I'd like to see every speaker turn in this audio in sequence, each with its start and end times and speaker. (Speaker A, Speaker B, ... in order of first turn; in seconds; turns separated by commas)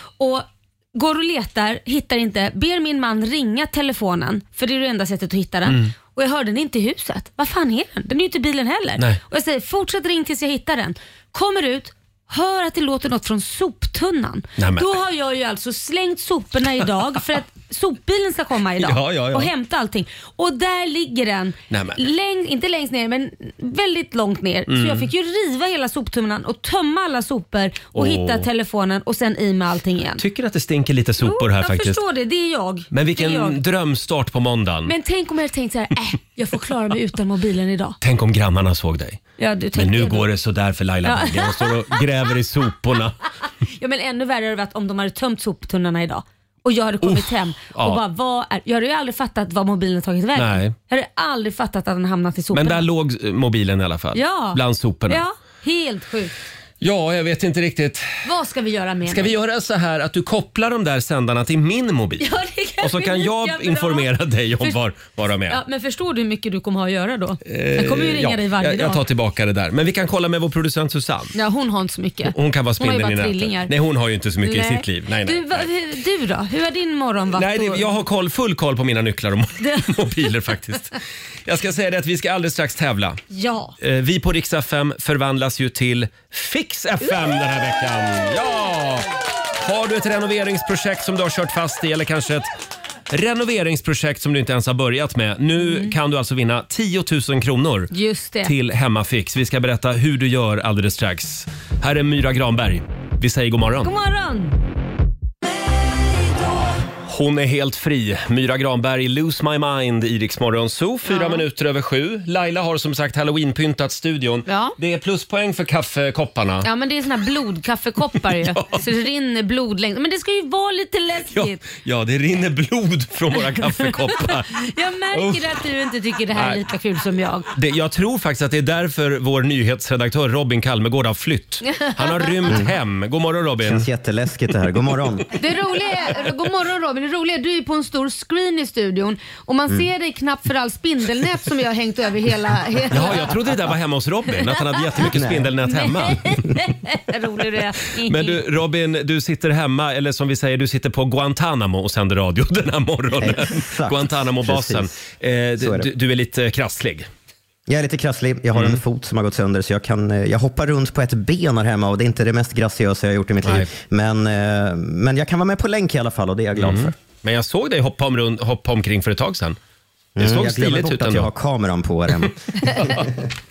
Speaker A: 0.2-30.2, Speaker B: 5.7-5.9, Speaker B: 14.6-14.9, Speaker B: 18.8-19.5, Speaker B: 21.7-22.0, Speaker B: 24.7-25.1, Speaker B: 27.9-28.5, Speaker B: 30.2-32.0, Speaker A: 31.2-33.6, Speaker B: 32.9-34.9, Speaker A: 34.9-38.0, Speaker B: 38.0-39.2, Speaker A: 39.4-40.2, Speaker B: 39.8-43.1, Speaker A: 41.0-42.0, Speaker A: 43.8-52.8, Speaker B: 47.0-48.0, Speaker B: 50.3-50.7, Speaker B: 52.5-55.2, Speaker A: 54.1-56.3, Speaker B: 56.8-58.2, Speaker A: 58.2-59.3, Speaker B: 59.1-62.3, Speaker A: 62.2-64.1, Speaker B: 62.8-65.6, Speaker A: 65.5-69.0, Speaker B: 67.5-71.3, Speaker A: 71.3-73.7, Speaker B: 72.3-75.7, Speaker A: 74.4-77.9, Speaker B: 77.3-83.2, Speaker A: 79.6-80.1, Speaker A: 83.3-83.8, Speaker B: 83.8-92.5, Speaker B: 93.1-97.9, Speaker A: 95.6-95.9, Speaker A: 97.9-98.5, Speaker B: 98.4-103.9, Speaker A: 103.8-104.6, Speaker B: 107.0-116.7, Speaker A: 111.0-111.4, Speaker A: 114.5-114.7, Speaker A: 116.6-121.6, Speaker B: 118.4-118.8, Speaker B: 121.3-124.5, Speaker A: 123.8-127.5, Speaker B: 125.1-125.4, Speaker B: 126.3-126.6, Speaker B: 127.5-133.9, Speaker A: 131.7-132.5, Speaker C: 133.6-135.3, Speaker A: 135.3-143.4, Speaker B: 142.9-146.4, Speaker C: 145.1-145.5, Speaker A: 145.7-148.4, Speaker B: 148.0-157.1, Speaker C: 153.2-154.9, Speaker C: 155.6-155.9, Speaker C: 157.7-166.9, Speaker B: 158.5-158.8, Speaker B: 163.4-163.7, Speaker B: 166.6-169.6, Speaker C: 170.2-172.3, Speaker B: 170.2-171.3, Speaker B: 172.5-173.1